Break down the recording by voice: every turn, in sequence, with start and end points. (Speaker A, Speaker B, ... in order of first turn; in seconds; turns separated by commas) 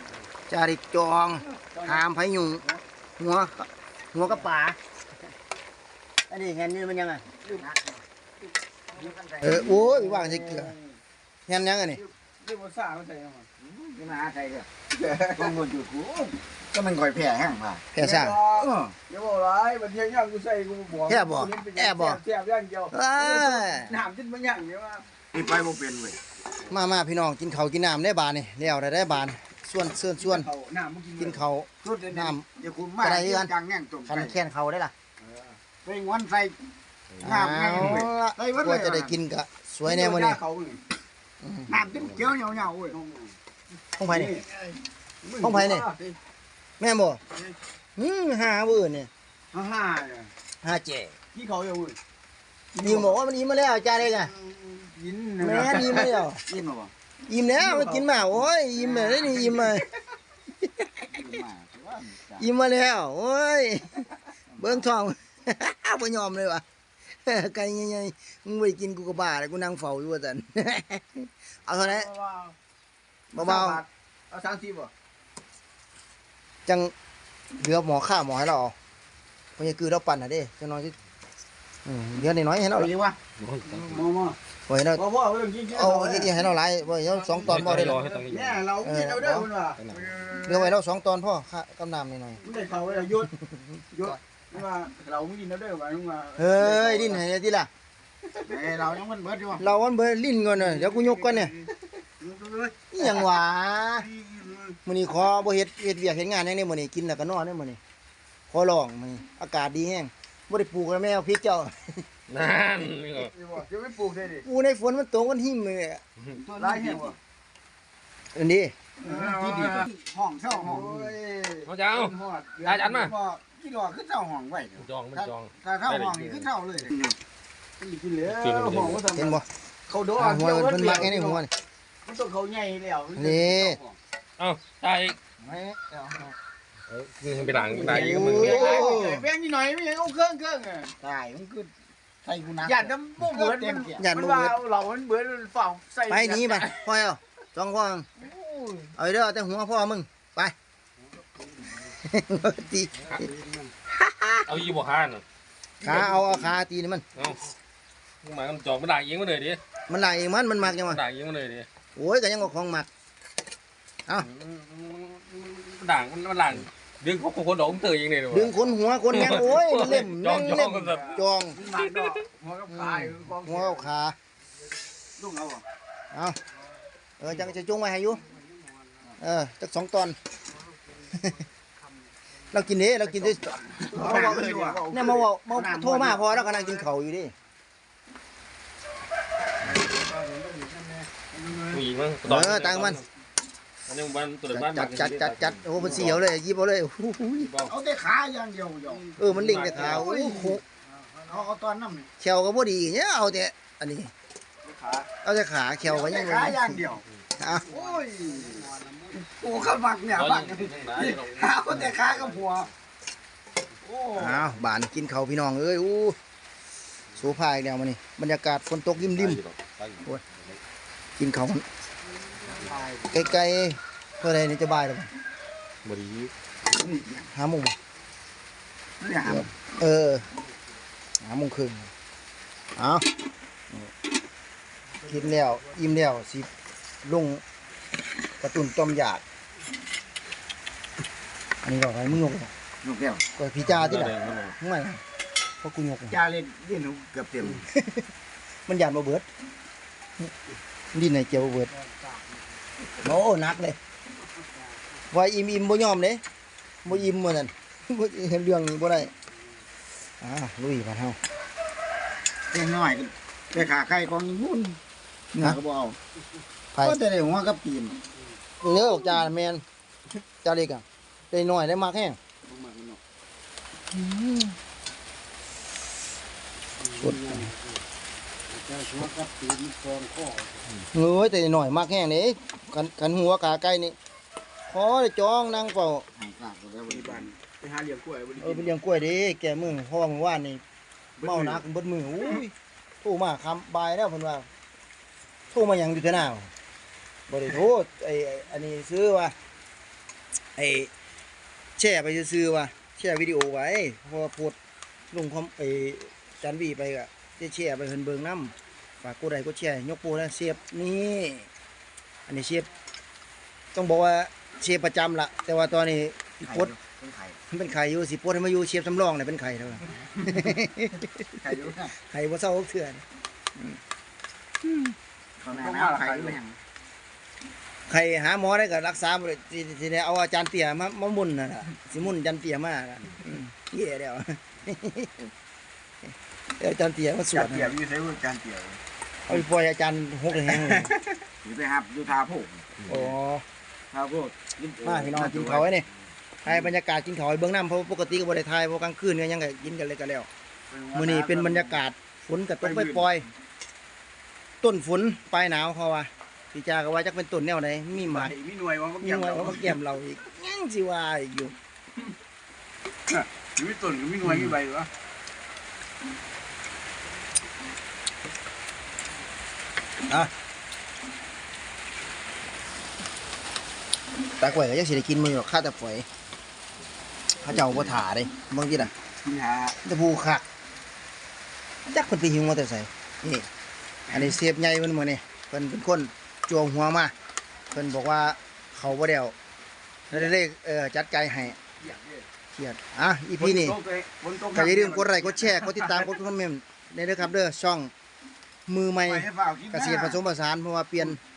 Speaker A: 0.5-2.6, Speaker B: 1.6-2.0, Speaker A: 3.2-4.8, Speaker A: 6.3-7.3, Speaker C: 7.5-8.1, Speaker C: 8.9-9.9, Speaker A: 9.4-10.8, Speaker B: 9.6-11.0, Speaker A: 11.5-12.0, Speaker B: 12.4-13.5, Speaker C: 13.6-14.7, Speaker B: 14.9-15.6, Speaker C: 15.3-17.9, Speaker A: 17.9-18.9, Speaker B: 18.0-25.1, Speaker A: 21.1-22.2, Speaker A: 22.9-24.0, Speaker C: 25.3-26.2, Speaker A: 26.7-30.5, Speaker B: 30.2-31.4, Speaker A: 31.2-32.5, Speaker C: 31.8-34.4, Speaker A: 33.0-33.5, Speaker A: 34.1-34.9, Speaker B: 35.2-35.5, Speaker C: 35.9-36.6, Speaker C: 37.2-39.2, Speaker A: 37.2-40.4, Speaker B: 39.9-40.8, Speaker A: 41.4-41.8, Speaker C: 41.7-43.0, Speaker B: 42.9-43.4, Speaker A: 44.0-44.4, Speaker B: 44.1-44.5, Speaker B: 45.2-46.2, Speaker A: 45.4-45.9, Speaker A: 46.8-47.2, Speaker A: 48.0-49.1, Speaker B: 49.5-50.3, Speaker A: 50.6-51.1, Speaker B: 51.3-52.0, Speaker A: 52.8-54.3, Speaker B: 52.8-53.2, Speaker B: 54.2-56.1, Speaker A: 55.4-56.4, Speaker C: 56.5-56.9, Speaker A: 57.3-59.9, Speaker B: 57.6-58.3, Speaker B: 59.0-59.8, Speaker C: 61.1-62.5, Speaker A: 62.4-66.6, Speaker C: 64.5-64.8, Speaker A: 67.2-72.1, Speaker B: 71.8-72.5, Speaker A: 73.3-73.8, Speaker B: 73.3-74.9, Speaker A: 76.7-76.9, Speaker A: 77.5-78.8, Speaker A: 79.6-80.9, Speaker A: 81.8-82.9, Speaker C: 82.8-83.2, Speaker D: 83.4-84.1, Speaker B: 83.8-84.4, Speaker A: 84.7-85.0, Speaker B: 85.0-86.4, Speaker A: 85.7-88.0, Speaker D: 87.4-88.6, Speaker B: 88.0-90.7, Speaker A: 88.8-89.5, Speaker A: 90.4-92.4, Speaker B: 92.4-93.3, Speaker A: 93.6-94.1, Speaker B: 93.9-97.2, Speaker A: 96.4-97.7, Speaker B: 98.4-98.8, Speaker C: 98.4-99.7, Speaker A: 99.6-101.5, Speaker B: 100.7-101.6, Speaker B: 102.2-103.3, Speaker A: 102.9-104.1, Speaker B: 104.1-104.8, Speaker A: 104.9-107.8, Speaker A: 108.5-112.0, Speaker D: 112.3-113.3, Speaker B: 113.2-114.5, Speaker A: 114.4-116.0, Speaker C: 116.4-117.2, Speaker B: 116.6-117.2, Speaker A: 118.3-118.8, Speaker C: 119.0-121.1, Speaker B: 119.0-119.9, Speaker B: 120.5-123.4, Speaker D: 121.7-123.1, Speaker C: 123.3-124.9, Speaker D: 124.8-126.5, Speaker C: 125.9-127.2, Speaker B: 127.8-131.4, Speaker D: 128.3-129.0, Speaker A: 129.1-129.4, Speaker A: 130.2-131.5, Speaker B: 132.0-134.0, Speaker A: 133.2-133.8, Speaker D: 134.4-135.2, Speaker A: 135.4-135.9, Speaker D: 136.9-138.9, Speaker B: 137.4-140.9, Speaker A: 137.8-139.3, Speaker C: 141.0-141.7, Speaker C: 142.2-144.0, Speaker B: 142.6-146.7, Speaker A: 144.0-144.6, Speaker A: 146.1-148.1, Speaker B: 148.2-148.9, Speaker A: 148.9-150.6, Speaker A: 151.9-153.2, Speaker A: 153.9-154.5, Speaker D: 154.5-155.2, Speaker A: 155.8-157.0, Speaker B: 155.8-156.3, Speaker D: 157.2-157.4, Speaker D: 158.2-159.6, Speaker A: 159.9-161.0, Speaker D: 160.7-161.7, Speaker A: 162.0-162.9, Speaker D: 164.2-168.6, Speaker A: 168.3-171.6, Speaker D: 169.1-172.2, Speaker B: 170.9-173.9, Speaker A: 172.7-174.2, Speaker B: 175.2-175.6, Speaker C: 175.2-175.6, Speaker A: 176.1-176.4, Speaker A: 177.2-178.2, Speaker B: 178.3-179.0, Speaker A: 179.2-180.2, Speaker A: 182.5-184.3, Speaker B: 183.8-185.1, Speaker C: 183.9-186.4, Speaker A: 184.9-187.3, Speaker C: 190.2-190.8, Speaker B: 191.2-191.8, Speaker D: 191.7-193.1, Speaker A: 192.2-193.0, Speaker D: 193.9-196.2, Speaker A: 194.5-197.5, Speaker C: 195.8-196.1, Speaker D: 197.4-197.7, Speaker C: 197.7-199.1, Speaker B: 198.9-201.5, Speaker A: 199.2-200.6, Speaker D: 199.3-200.1, Speaker C: 199.8-200.5, Speaker C: 201.3-202.1, Speaker A: 202.2-204.1, Speaker B: 204.6-205.1, Speaker A: 205.2-206.8, Speaker C: 205.9-207.0, Speaker B: 206.1-206.8, Speaker A: 207.4-207.7, Speaker B: 207.5-209.3, Speaker C: 207.7-212.7, Speaker D: 210.1-212.7, Speaker B: 210.8-211.9, Speaker B: 213.8-214.6, Speaker A: 214.2-216.2, Speaker A: 217.2-219.4, Speaker D: 218.9-220.6, Speaker A: 221.2-221.7, Speaker D: 222.4-222.7, Speaker B: 222.6-223.3, Speaker A: 223.1-225.1, Speaker D: 225.8-226.3, Speaker C: 226.7-227.2, Speaker A: 227.3-227.8, Speaker C: 229.0-229.5, Speaker A: 229.2-230.2, Speaker A: 231.2-231.9, Speaker A: 232.8-233.1, Speaker A: 235.0-236.5, Speaker A: 237.0-237.4, Speaker A: 238.4-239.2, Speaker A: 241.6-242.5, Speaker C: 242.8-243.2, Speaker A: 243.4-245.0, Speaker D: 243.7-244.6, Speaker A: 245.6-246.2, Speaker C: 246.1-247.7, Speaker A: 247.6-248.1, Speaker A: 248.7-249.3, Speaker A: 250.9-251.7, Speaker B: 251.7-252.5, Speaker A: 252.9-253.8, Speaker A: 255.1-256.2, Speaker A: 256.8-259.1, Speaker A: 260.2-261.2, Speaker C: 262.5-264.8, Speaker C: 265.3-266.0, Speaker A: 266.7-267.0, Speaker C: 266.8-268.0, Speaker A: 268.6-269.6, Speaker A: 270.4-272.2, Speaker B: 272.5-273.0, Speaker A: 273.9-274.6, Speaker B: 276.8-277.8, Speaker A: 277.0-277.5, Speaker B: 278.5-280.6, Speaker A: 280.9-284.0, Speaker A: 284.7-286.1, Speaker C: 286.1-287.3, Speaker B: 286.9-288.7, Speaker A: 288.4-290.6, Speaker B: 291.2-291.6, Speaker A: 291.2-294.5, Speaker A: 295.5-296.5, Speaker A: 297.3-299.4, Speaker A: 300.6-300.9, Speaker A: 301.8-304.6, Speaker A: 305.1-311.5, Speaker A: 312.3-312.7, Speaker A: 313.8-316.7, Speaker C: 316.4-317.4, Speaker A: 317.5-321.3, Speaker C: 321.4-321.9, Speaker A: 322.0-323.0, Speaker A: 324.6-324.9, Speaker C: 325.4-326.6, Speaker B: 325.5-326.4, Speaker A: 327.9-335.3, Speaker A: 336.6-337.8, Speaker B: 337.4-337.9, Speaker C: 337.7-338.8, Speaker A: 339.3-340.9, Speaker B: 340.5-340.9, Speaker C: 341.4-342.7, Speaker A: 342.9-343.4, Speaker C: 343.9-345.7, Speaker A: 344.8-345.9, Speaker A: 346.4-350.3, Speaker B: 350.7-351.8, Speaker A: 350.9-353.3, Speaker B: 352.6-353.1, Speaker A: 354.6-358.3, Speaker B: 357.9-359.8, Speaker A: 359.0-361.6, Speaker B: 363.1-364.9, Speaker A: 364.3-364.6, Speaker A: 370.1-370.3, Speaker A: 374.4-376.1, Speaker A: 377.4-378.9, Speaker B: 379.2-379.8, Speaker A: 379.8-380.4, Speaker A: 381.9-383.5, Speaker A: 384.1-387.1, Speaker A: 387.7-389.4, Speaker A: 390.1-391.6, Speaker B: 391.8-392.3, Speaker A: 392.5-393.8, Speaker B: 393.4-396.1, Speaker A: 394.5-397.9, Speaker A: 398.7-401.2, Speaker B: 399.2-400.1